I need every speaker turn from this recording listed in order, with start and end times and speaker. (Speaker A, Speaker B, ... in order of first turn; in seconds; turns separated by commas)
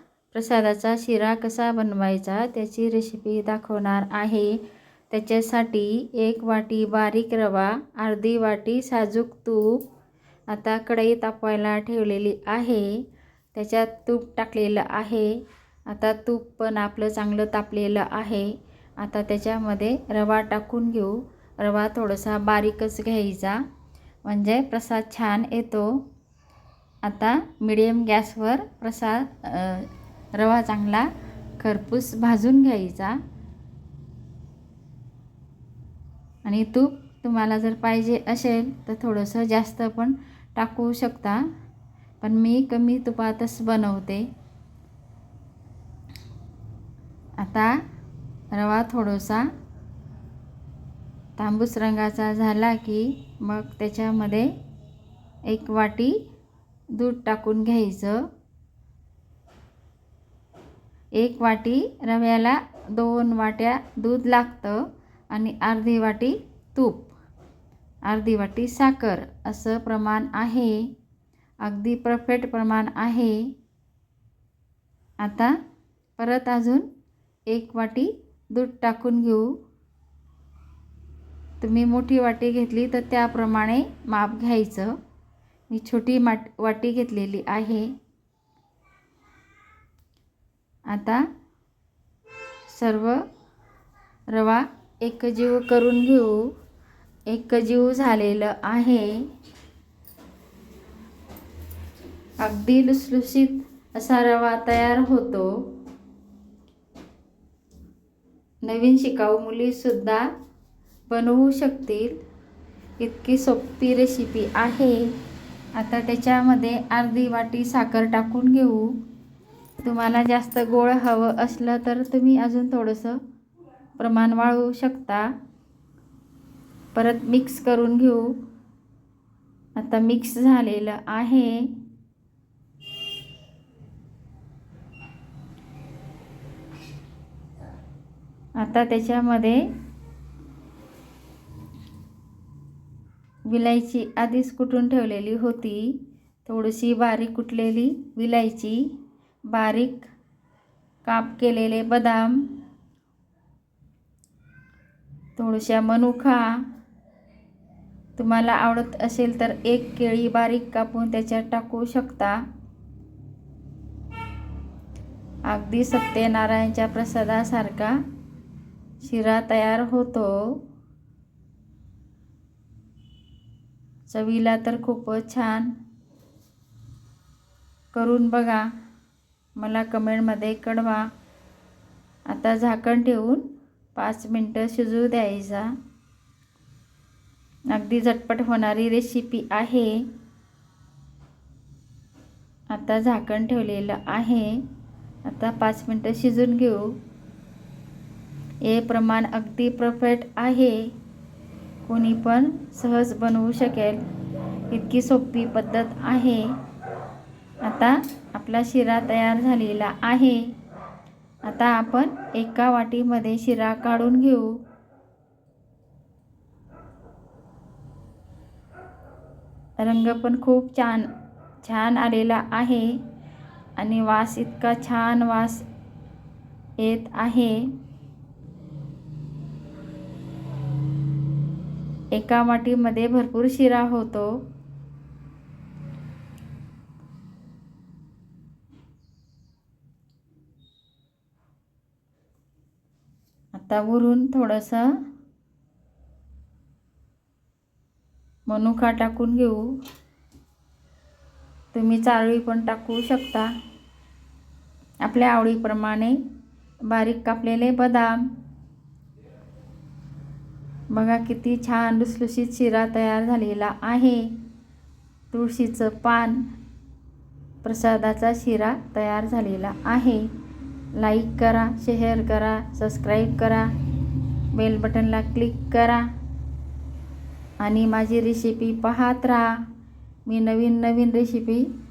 Speaker A: 0.3-4.6, Speaker A: 5.1-9.8, Speaker A: 10.5-13.0, Speaker A: 13.5-23.6, Speaker A: 24.2-26.0, Speaker A: 27.0-33.2, Speaker A: 36.5-41.4, Speaker A: 42.2-44.3, Speaker A: 47.4-47.8, Speaker A: 48.5-49.5, Speaker A: 51.4-54.5, Speaker A: 55.5-56.2, Speaker A: 56.9-58.2, Speaker A: 61.2-67.1, Speaker A: 68.1-70.9, Speaker A: 71.6-73.5, Speaker A: 75.2-75.5, Speaker A: 76.2-76.9, Speaker A: 77.5-79.5, Speaker A: 81.6-84.9, Speaker A: 85.7-87.9, Speaker A: 90.9-91.2, Speaker A: 92.7-93.2, Speaker A: 94.3-96.5, Speaker A: 97.3-99.3, Speaker A: 102.4-105.5, Speaker A: 108.6-110.3, Speaker A: 111.1-112.2, Speaker A: 113.0-115.1, Speaker A: 115.8-118.9, Speaker A: 119.8-123.2, Speaker A: 124.0-125.3, Speaker A: 127.0-128.3, Speaker A: 129.8-131.7, Speaker A: 138.6-139.6, Speaker A: 143.5-145.9, Speaker A: 146.4-148.8, Speaker A: 149.5-150.1, Speaker A: 151.1-152.6, Speaker A: 155.4-156.6, Speaker A: 158.2-162.4, Speaker A: 165.5-168.0, Speaker A: 169.0-170.6, Speaker A: 174.1-175.7, Speaker A: 177.9-178.7, Speaker A: 179.6-181.1, Speaker A: 182.3-183.4, Speaker A: 183.9-185.7, Speaker A: 187.7-190.1, Speaker A: 192.7-194.6, Speaker A: 195.3-196.9, Speaker A: 198.7-200.9, Speaker A: 201.8-204.0, Speaker A: 204.7-206.5, Speaker A: 207.6-210.4, Speaker A: 211.4-214.5, Speaker A: 219.8-221.1, Speaker A: 221.6-222.9, Speaker A: 223.8-225.7, Speaker A: 226.8-227.7, Speaker A: 232.1-234.4, Speaker A: 243.6-244.9, Speaker A: 248.5-249.7, Speaker A: 251.7-253.5, Speaker A: 255.0-256.2, Speaker A: 256.9-258.2, Speaker A: 260.9-264.3, Speaker A: 265.3-266.5, Speaker A: 267.6-270.3, Speaker A: 271.0-273.7, Speaker A: 274.5-276.1, Speaker A: 277.6-279.5, Speaker A: 280.3-281.6